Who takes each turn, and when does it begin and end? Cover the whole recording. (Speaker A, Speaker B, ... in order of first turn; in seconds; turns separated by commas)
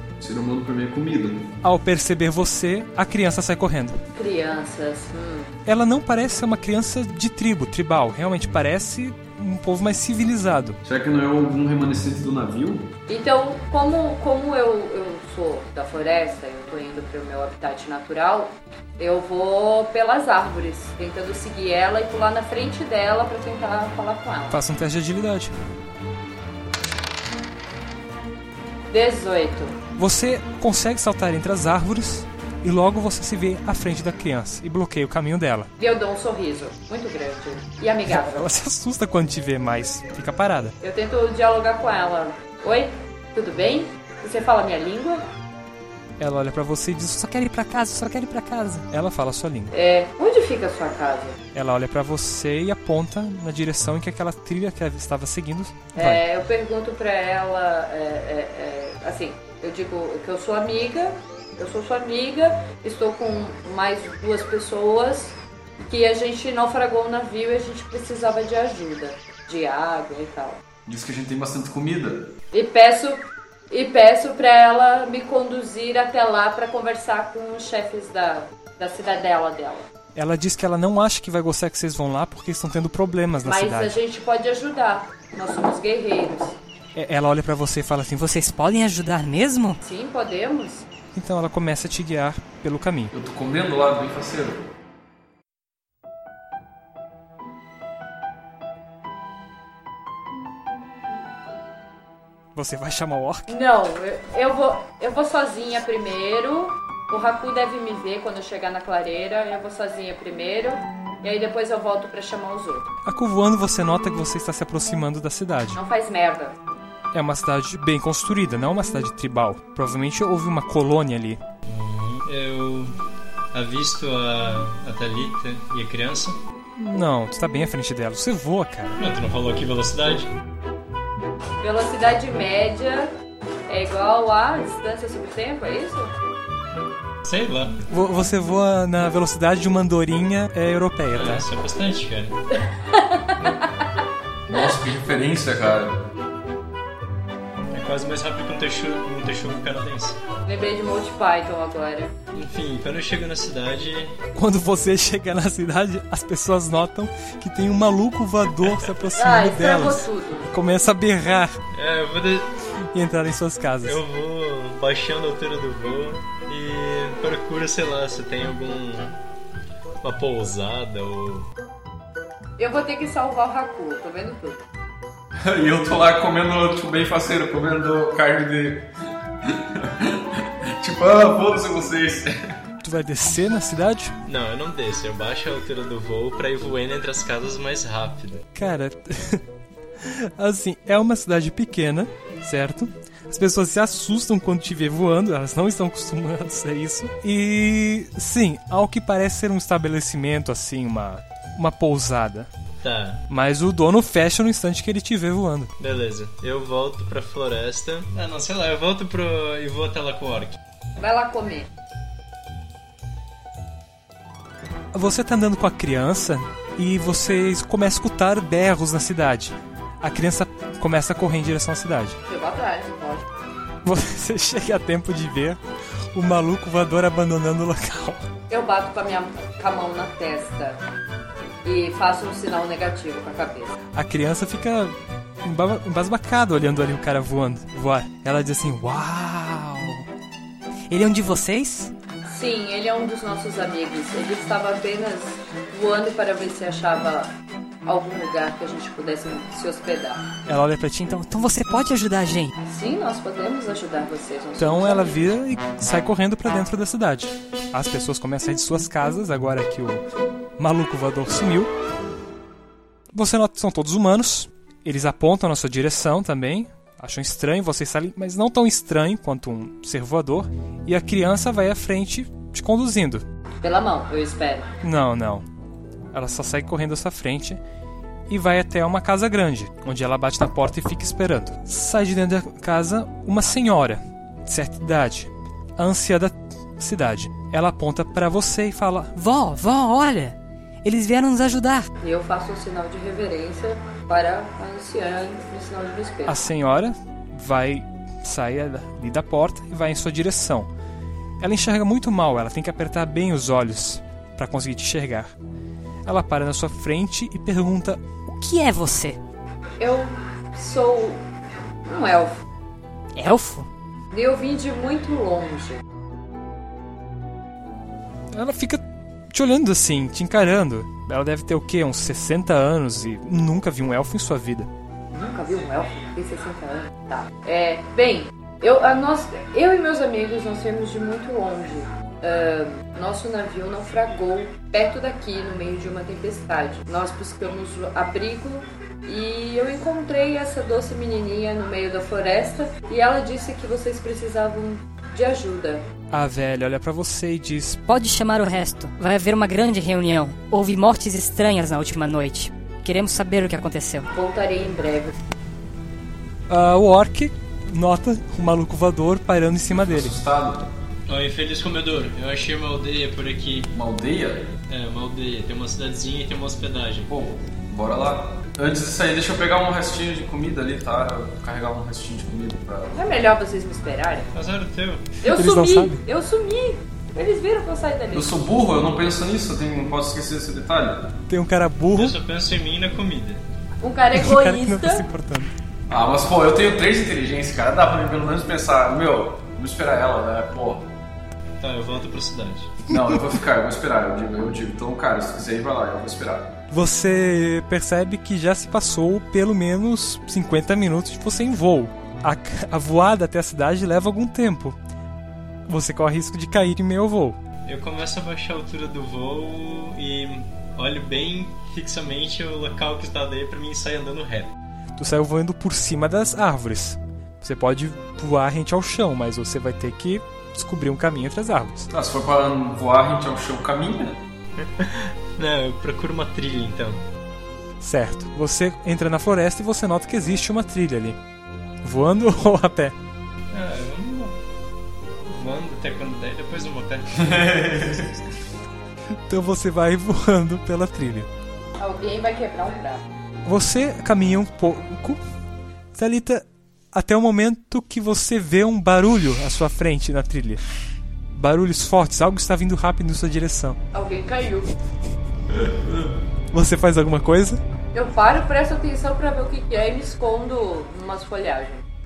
Speaker A: 0.2-1.4, Speaker B: 1.6-4.0, Speaker C: 4.1-5.6, Speaker B: 5.7-10.8, Speaker A: 10.8-12.9, Speaker C: 13.1-24.6, Speaker B: 24.5-25.5, Speaker C: 28.9-29.7, Speaker B: 29.9-35.7, Speaker C: 35.8-38.5, Speaker B: 38.1-40.7, Speaker C: 40.8-45.2, Speaker B: 46.2-49.7, Speaker C: 49.7-51.4, Speaker B: 51.5-56.2, Speaker C: 55.9-65.4, Speaker C: 65.9-70.6, Speaker A: 70.8-72.3, Speaker C: 72.5-79.9, Speaker B: 80.1-84.0, Speaker C: 83.4-86.6, Speaker B: 86.9-89.8, Speaker C: 89.8-90.9, Speaker B: 91.1-93.1, Speaker A: 93.1-94.6, Speaker B: 102.5-103.5, Speaker C: 103.5-112.9, Speaker B: 113.0-115.8, Speaker C: 115.7-116.6, Speaker B: 117.1-121.4, Speaker D: 121.7-122.9, Speaker D: 123.5-126.4, Speaker B: 126.7-129.0, Speaker D: 129.0-130.3, Speaker C: 131.6-133.1, Speaker C: 133.7-136.1, Speaker D: 137.2-137.8, Speaker B: 137.9-141.5, Speaker D: 141.1-142.4, Speaker C: 142.9-143.7, Speaker A: 144.5-145.9, Speaker D: 147.7-150.2, Speaker C: 150.4-152.1, Speaker D: 152.3-154.2, Speaker B: 154.3-161.6, Speaker C: 159.2-160.5, Speaker D: 161.7-162.5, Speaker B: 162.9-164.0, Speaker D: 163.8-169.2, Speaker D: 170.0-171.5, Speaker C: 172.6-174.6, Speaker A: 175.4-178.8, Speaker A: 179.4-182.3, Speaker B: 182.8-184.1, Speaker D: 184.2-188.4, Speaker B: 188.5-189.4, Speaker B: 190.0-202.5, Speaker D: 202.8-203.2, Speaker B: 203.3-205.7, Speaker D: 205.8-210.6, Speaker C: 211.0-211.7, Speaker B: 214.9-222.2, Speaker C: 222.3-223.3, Speaker B: 223.8-225.6, Speaker B: 226.1-228.2, Speaker C: 228.5-230.8, Speaker C: 231.6-233.8, Speaker B: 233.9-240.1, Speaker B: 240.9-241.9, Speaker C: 242.2-247.3, Speaker C: 247.8-250.2, Speaker B: 250.4-252.5, Speaker C: 252.6-255.2, Speaker B: 254.6-260.0, Speaker B: 260.6-261.7, Speaker B: 263.1-273.2, Speaker C: 273.6-274.7, Speaker B: 274.8-275.4, Speaker B: 276.1-277.6, Speaker B: 278.3-289.4, Speaker E: 289.2-290.3, Speaker B: 290.8-291.9, Speaker C: 292.0-296.4, Speaker B: 296.2-300.7, Speaker B: 301.4-305.3, Speaker B: 306.0-308.2, Speaker E: 308.3-309.2, Speaker C: 309.8-311.2, Speaker C: 311.9-312.4, Speaker E: 313.1-313.7, Speaker C: 314.1-315.8, Speaker B: 318.3-324.7, Speaker C: 325.1-345.8, Speaker B: 346.1-347.9, Speaker E: 347.9-354.1, Speaker C: 354.1-355.1, Speaker B: 356.5-360.2, Speaker A: 359.8-360.7, Speaker D: 361.1-363.7, Speaker A: 363.7-364.5, Speaker D: 364.7-367.1, Speaker A: 367.1-373.0, Speaker C: 372.9-374.3, Speaker D: 374.3-375.1, Speaker C: 375.2-378.3, Speaker B: 375.2-376.0, Speaker A: 378.1-381.1, Speaker B: 381.3-382.1, Speaker D: 381.9-383.4, Speaker C: 383.8-385.1, Speaker B: 384.1-385.5, Speaker A: 385.9-390.8, Speaker D: 391.6-392.8, Speaker A: 392.9-396.5, Speaker B: 396.7-404.8, Speaker B: 405.7-407.4, Speaker D: 407.6-414.5, Speaker B: 415.0-421.9, Speaker A: 421.9-424.2, Speaker D: 424.6-427.0, Speaker B: 427.8-431.2, Speaker B: 431.8-432.9, Speaker D: 433.5-434.4, Speaker D: 435.3-437.8, Speaker A: 437.2-438.1, Speaker B: 439.1-441.3, Speaker C: 441.8-443.0, Speaker B: 443.4-445.2, Speaker B: 445.9-450.6, Speaker B: 451.3-453.8, Speaker C: 453.9-454.7, Speaker B: 456.5-457.6, Speaker C: 457.9-461.8